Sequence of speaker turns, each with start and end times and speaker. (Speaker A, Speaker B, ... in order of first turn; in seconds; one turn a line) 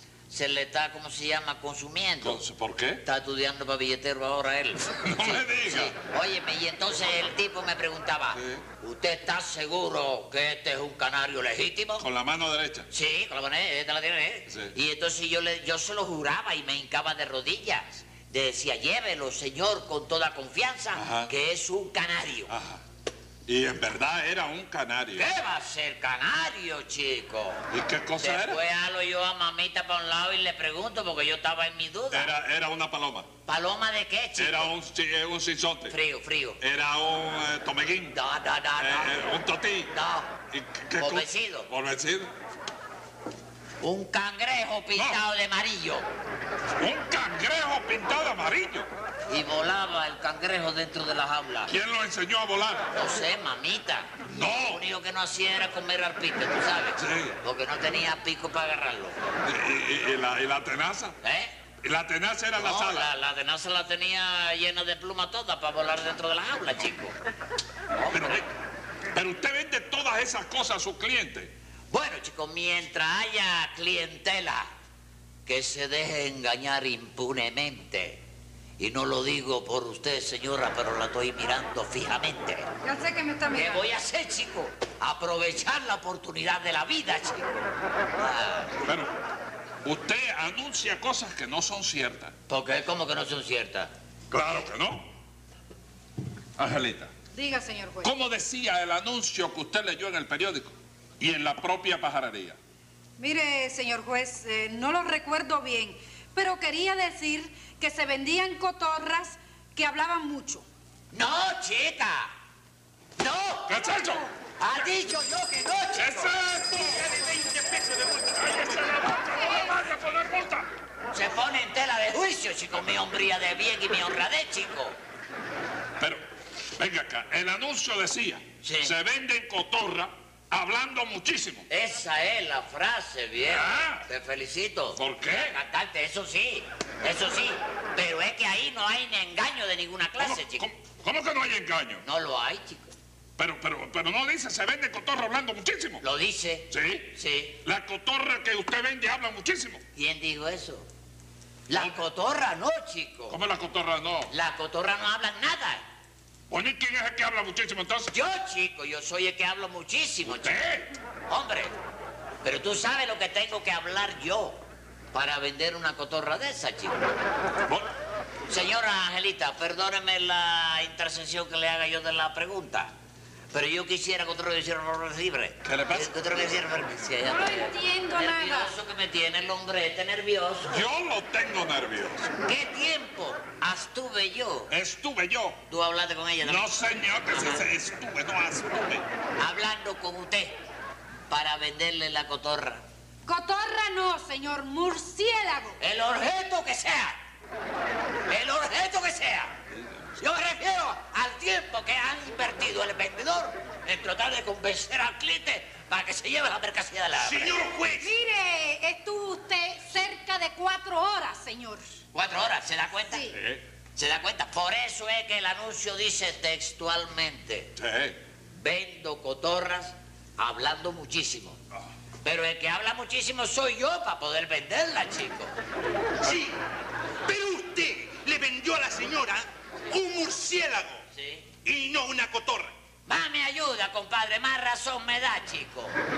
Speaker A: 0.3-2.4
Speaker B: 2.2-3.0
Speaker A: 3.0-12.1
Speaker B: 5.0-5.9
Speaker B: 8.3-8.6
Speaker B: 12.0-12.9
Speaker A: 12.9-22.5
Speaker B: 20.9-21.3
Speaker B: 22.5-22.8
Speaker B: 23.5-25.3
Speaker A: 25.1-27.6
Speaker B: 27.7-28.6
Speaker A: 28.2-32.3
Speaker B: 32.1-33.3
Speaker A: 33.5-34.7
Speaker B: 34.4-36.0
Speaker A: 35.9-36.6
Speaker B: 36.6-38.2
Speaker A: 38.1-39.2
Speaker B: 38.8-39.9
Speaker A: 39.9-40.3
Speaker B: 40.5-42.3
Speaker A: 41.0-41.7
Speaker A: 43.8-46.1
Speaker B: 45.0-45.2
Speaker B: 46.8-48.9
Speaker A: 49.3-51.7
Speaker B: 51.7-52.9
Speaker A: 52.9-59.2
Speaker B: 54.3-54.8
Speaker B: 57.0-57.4
Speaker B: 59.5-61.2
Speaker A: 61.2-61.5
Speaker B: 61.8-63.1
Speaker A: 62.6-67.2
Speaker A: 67.9-68.4
Speaker B: 68.1-68.5
Speaker B: 69.1-71.5
Speaker A: 71.9-74.7
Speaker A: 75.5-78.2
Speaker A: 78.8-82.7
Speaker C: 82.8-83.9
Speaker A: 83.5-88.8
Speaker B: 88.8-89.1
Speaker B: 89.8-92.3
Speaker A: 92.5-93.9
Speaker B: 94.3-95.1
Speaker B: 96.6-97.1
Speaker C: 97.3-98.1
Speaker B: 98.0-102.6
Speaker C: 103.2-110.7
Speaker A: 111.1-112.3
Speaker A: 113.2-113.8
Speaker B: 113.7-114.2
Speaker C: 113.9-114.3
Speaker A: 114.6-116.5
Speaker B: 116.0-120.7
Speaker C: 119.4-119.7
Speaker A: 121.1-125.0
Speaker B: 126.8-131.7
Speaker A: 128.6-128.9
Speaker A: 131.7-140.7
Speaker B: 133.5-134.0
Speaker B: 135.0-135.6
Speaker B: 140.2-142.0
Speaker A: 142.0-142.9
Speaker B: 143.4-146.0
Speaker A: 146.0-147.6
Speaker B: 146.7-149.8
Speaker A: 149.9-150.9
Speaker A: 151.7-153.4
Speaker B: 153.3-154.3
Speaker A: 154.3-155.8
Speaker B: 156.5-158.1
Speaker A: 158.1-160.6
Speaker B: 160.2-160.9
Speaker A: 161.3-161.8
Speaker A: 162.4-164.6
Speaker A: 165.1-167.1
Speaker A: 168.5-172.9
Speaker A: 173.5-180.8
Speaker B: 175.6-176.4
Speaker C: 177.2-178.8
Speaker B: 180.7-182.3
Speaker A: 182.4-184.7
Speaker B: 184.7-185.6
Speaker A: 185.7-187.7
Speaker B: 186.4-189.1
Speaker A: 189.4-190.6
Speaker A: 191.3-192.8
Speaker C: 193.3-195.8
Speaker A: 195.8-197.2
Speaker A: 198.3-199.6
Speaker A: 200.2-207.6
Speaker D: 207.2-208.2
Speaker C: 208.0-211.9
Speaker A: 212.1-213.3
Speaker C: 213.1-213.4
Speaker B: 213.3-213.6
Speaker A: 214.0-217.7
Speaker B: 217.8-218.2
Speaker A: 218.6-221.6
Speaker A: 222.2-225.5
Speaker D: 226.2-226.6
Speaker D: 227.2-231.0
Speaker A: 231.1-231.5
Speaker D: 231.6-232.7
Speaker A: 233.1-236.0